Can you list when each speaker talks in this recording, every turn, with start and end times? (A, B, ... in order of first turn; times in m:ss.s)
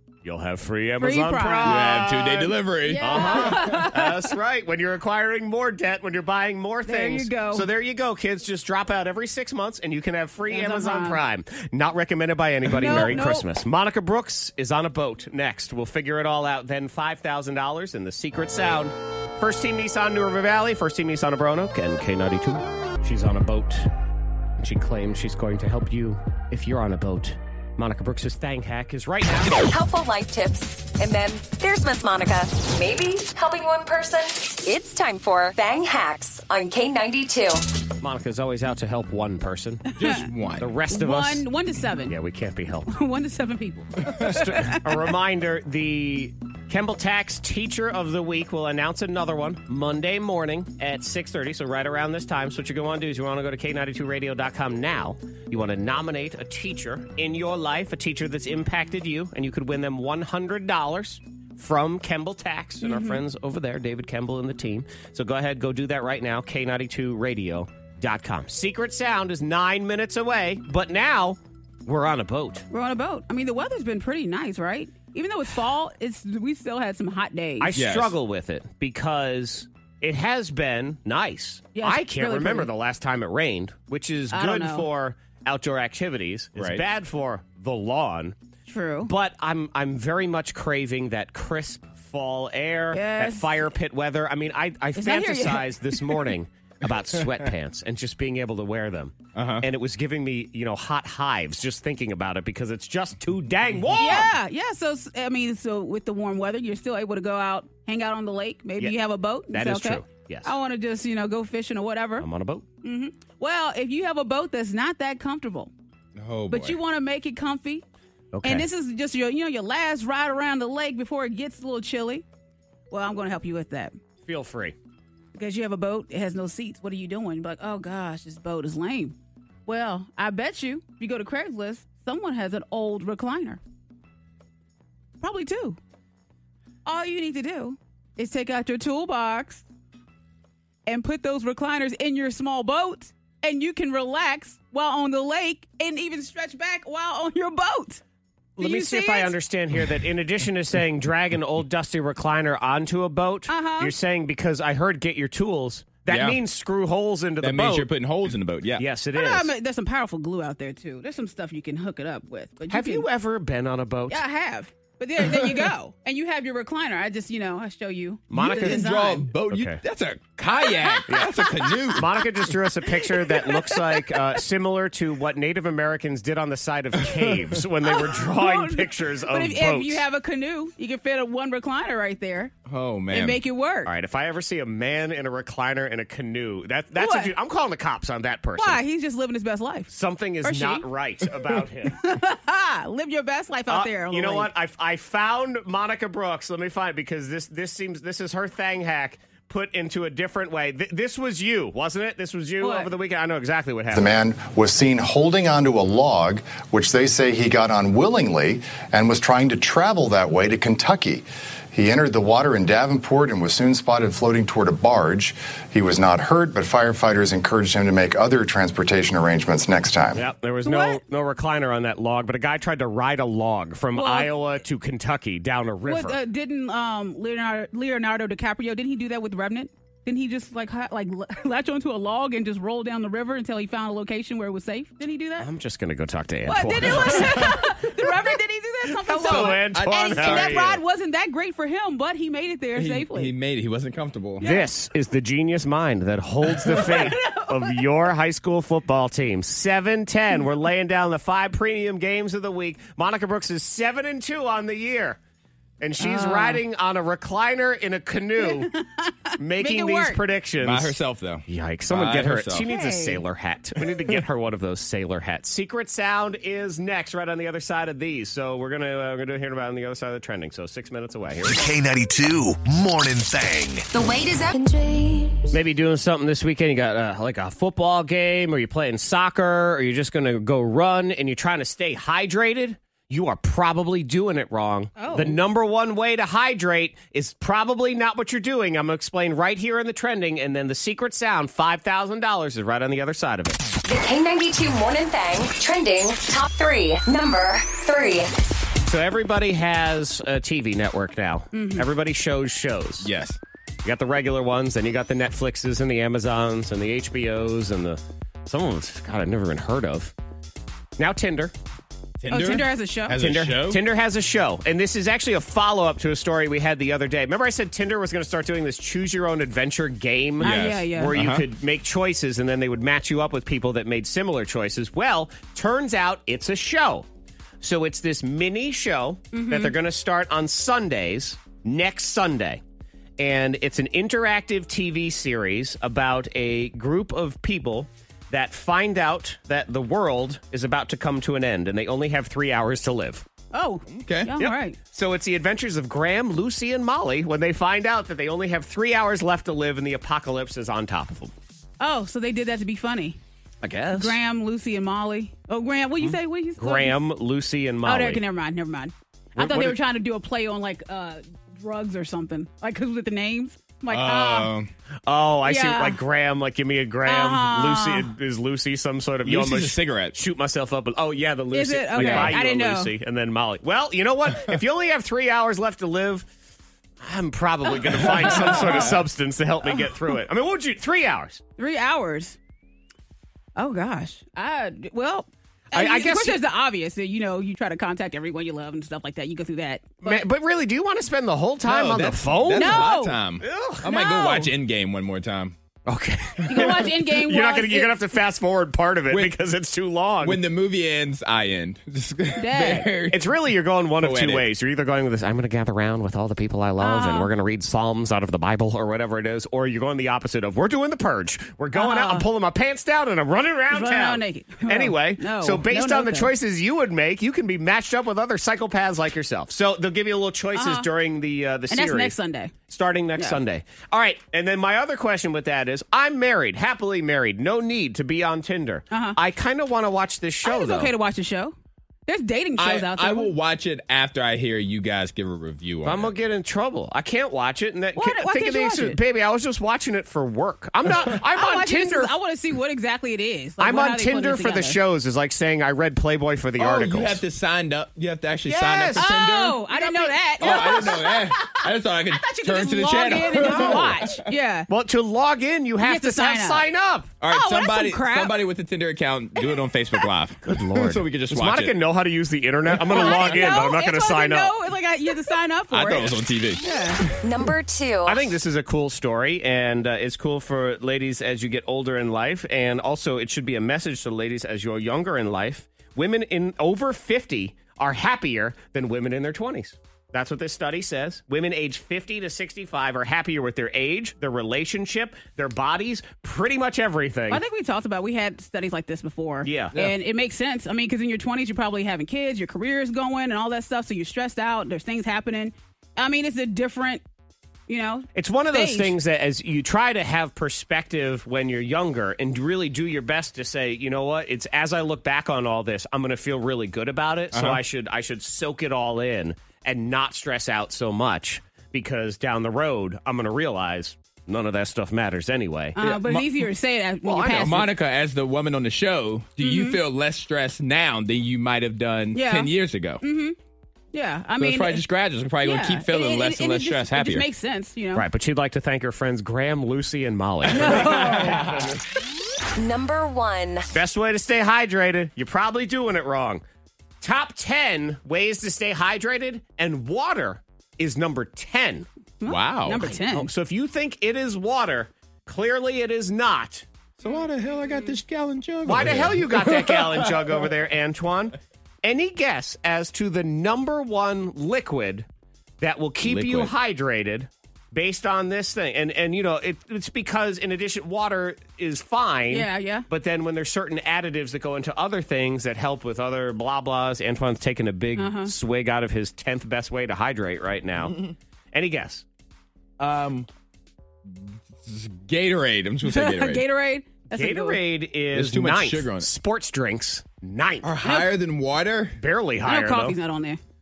0:00.2-0:23.9 A
0:01.0-0:01.8 B
0:01.6-0:03.8 C
0:02.8-0:04.2 B
0:06.8-0:07.7 B
0:10.5-0:11.2 B
0:12.7-0:13.4 B
0:24.6-0:29.6 A
0:29.6-0:37.6 D
0:38.0-0:39.9 A
0:40.0-0:40.7 C
0:40.6-0:41.4 A
0:40.9-0:42.2 B
0:42.1-0:42.9 A
0:42.9-0:44.8 B
0:44.2-1:12.6 A
1:02.8-1:03.2 B
1:12.7-1:17.7 B
1:17.6-1:28.4 A
1:17.7-1:18.2 C
1:21.8-1:22.7 B
1:24.3-1:24.9 B
1:26.6-1:26.8 C
1:28.7-1:29.1 B
1:29.0-1:44.3 A
1:32.9-1:33.7 B
1:35.0-1:36.3 B
1:39.4-1:39.7 C
1:44.0-1:52.3 B
1:49.5-1:50.5 A
1:52.2-1:52.6 A
1:52.8-1:55.7 B
1:56.2-1:56.8 C
1:56.5-1:57.8 B
1:58.3-1:58.7 A
1:58.4-2:02.2 B
2:02.9-2:04.0 B
2:04.2-2:04.8 A
2:05.4-2:09.2 B
2:09.7-2:13.6 B
2:15.2-2:15.8 B
2:16.8-2:19.6 B
2:20.9-2:28.0 B
2:28.6-2:37.9 A
2:28.6-2:29.3 B
2:33.5-2:33.9 B
2:36.1-2:36.4 C
2:37.4-2:38.8 C
2:38.8-2:39.5 A
2:39.1-2:43.1 B
2:42.7-2:44.2 A
2:44.1-2:49.3 B
2:48.3-2:48.9 A
2:48.3-2:52.1 C
2:49.5-2:49.8 A
2:50.6-2:51.1 B
2:51.1-3:00.0 A
2:51.6-2:51.9 B
2:53.2-2:54.2 B
2:57.9-3:02.5 B
3:02.7-3:03.4 C
3:03.1-3:03.9 B
3:03.9-3:08.8 A
3:07.0-3:07.3 B
3:08.6-3:09.9 B
3:09.9-3:12.0 A
3:10.4-3:10.8 B
3:11.9-3:14.5 B
3:13.7-3:24.1 A
3:22.6-3:22.9 B
3:23.9-3:40.2 E
3:40.2-3:46.2 A
3:40.6-3:41.0 B
3:44.0-3:44.3 B
3:45.9-3:55.5 B
3:55.4-3:57.6 A
3:56.5-4:03.3 B
3:59.1-4:00.8 A
3:59.2-4:00.7 C
4:02.8-4:04.4 C
4:04.4-4:04.7 B
4:04.4-4:15.2 A
4:06.6-4:07.7 B
4:15.8-4:18.7 A
4:16.0-4:16.6 B
4:18.4-4:20.2 B
4:19.4-4:21.0 A
4:20.6-4:22.6 C
4:21.5-4:31.6 A
4:22.6-4:23.2 B
4:31.4-4:33.9 F
4:33.9-4:35.5 D
4:35.5-4:53.6 A
4:45.0-4:45.4 B
4:53.8-4:58.3 D
4:58.9-5:03.1 A
5:01.5-5:01.9 B
5:03.0-5:03.4 C
5:03.8-5:10.1 A
5:11.0-5:11.5 A
5:12.2-5:13.8 C
5:12.3-5:13.2 B
5:13.2-5:27.1 A
5:20.4-5:21.1 B
5:20.4-5:21.4 C
5:27.6-5:32.6 A
5:29.3-5:29.8 B
5:33.2-5:43.2 A
5:43.5-5:44.8 B
5:43.9-5:44.3 C
5:44.4-5:51.3 A
5:51.8-5:53.2 B
5:53.6-5:54.2 A
5:53.9-5:57.0 B
5:56.0-5:58.2 A
5:57.8-6:04.5 B
5:59.4-5:59.8 A
6:03.9-6:04.7 C
6:05.1-6:16.3 A
6:05.4-6:06.0 B
6:07.1-6:08.1 B
6:09.2-6:10.2 C
6:11.5-6:12.9 B
6:12.0-6:12.4 C
6:17.0-6:21.4 A
6:18.2-6:19.0 B
6:18.4-6:18.9 C
6:21.6-6:22.4 B
6:23.6-6:30.2 B
6:25.7-6:26.4 A
6:30.0-6:32.9 A
6:31.6-6:35.6 C
6:32.5-6:33.2 B
6:33.4-6:33.8 A
6:33.8-6:34.5 B
6:35.9-6:40.4 A
6:36.5-6:37.9 B
6:36.5-6:36.7 C
6:40.2-6:43.3 C
6:42.4-6:42.9 B
6:43.1-7:02.2 A
6:44.0-6:44.5 C
6:46.8-6:47.3 B
6:51.7-6:52.3 B
6:53.7-6:56.3 B
7:00.6-7:00.9 B
7:01.7-7:02.5 B
7:02.7-7:10.9 A
7:08.9-7:09.2 B
7:10.4-7:11.6 B
7:12.1-7:13.3 B
7:12.6-7:16.1 C
7:15.8-7:22.1 A
7:18.0-7:19.0 B
7:21.3-7:24.8 B
7:23.6-7:27.2 A
7:26.6-7:29.6 C
7:28.4-7:29.1 A
7:29.0-7:34.7 B
7:29.7-7:31.0 A
7:30.4-7:34.2 C
7:33.4-7:33.8 A
7:34.7-7:37.1 A
7:35.8-7:36.6 B
7:37.2-7:41.7 C
7:37.3-7:38.4 B
7:40.4-7:44.5 A
7:42.8-7:43.5 C
7:42.9-7:47.1 B
7:45.7-7:47.5 C
7:47.2-7:48.3 D
7:48.0-8:07.4 A
8:07.3-8:17.0 B
8:09.4-8:09.7 A
8:17.7-8:19.0 B
8:18.2-8:35.8 A
8:27.3-8:27.6 C
8:35.8-8:37.7 B
8:35.8-8:36.5 C
8:37.0-8:37.7 A
8:37.4-8:43.0 C
8:39.4-8:39.8 B
8:42.1-8:43.4 B
8:43.9-8:44.8 B
8:44.4-8:47.3 C
8:45.4-8:48.1 B
8:47.9-8:51.6 A
8:50.5-8:51.4 B
8:51.1-8:51.6 C
8:52.6-8:53.7 D
8:53.7-8:56.4 A
8:57.0-9:01.9 A
9:02.2-9:03.3 B
9:02.3-9:02.9 C
9:02.9-9:06.7 A
9:07.0-9:10.2 C
9:08.6-9:15.1 A
9:15.6-9:31.0 A
9:16.0-9:16.5 C
9:22.3-9:22.9 B
9:28.0-9:28.3 B
9:31.5-9:32.0 A
9:32.8-9:33.3 C
9:34.6-9:36.4 C
9:35.8-9:37.6 B
9:37.1-9:40.7 A
9:38.1-9:39.1 C
9:40.6-9:42.0 C
9:40.8-9:41.1 B
9:42.0-9:43.0 A
9:42.4-9:43.4 B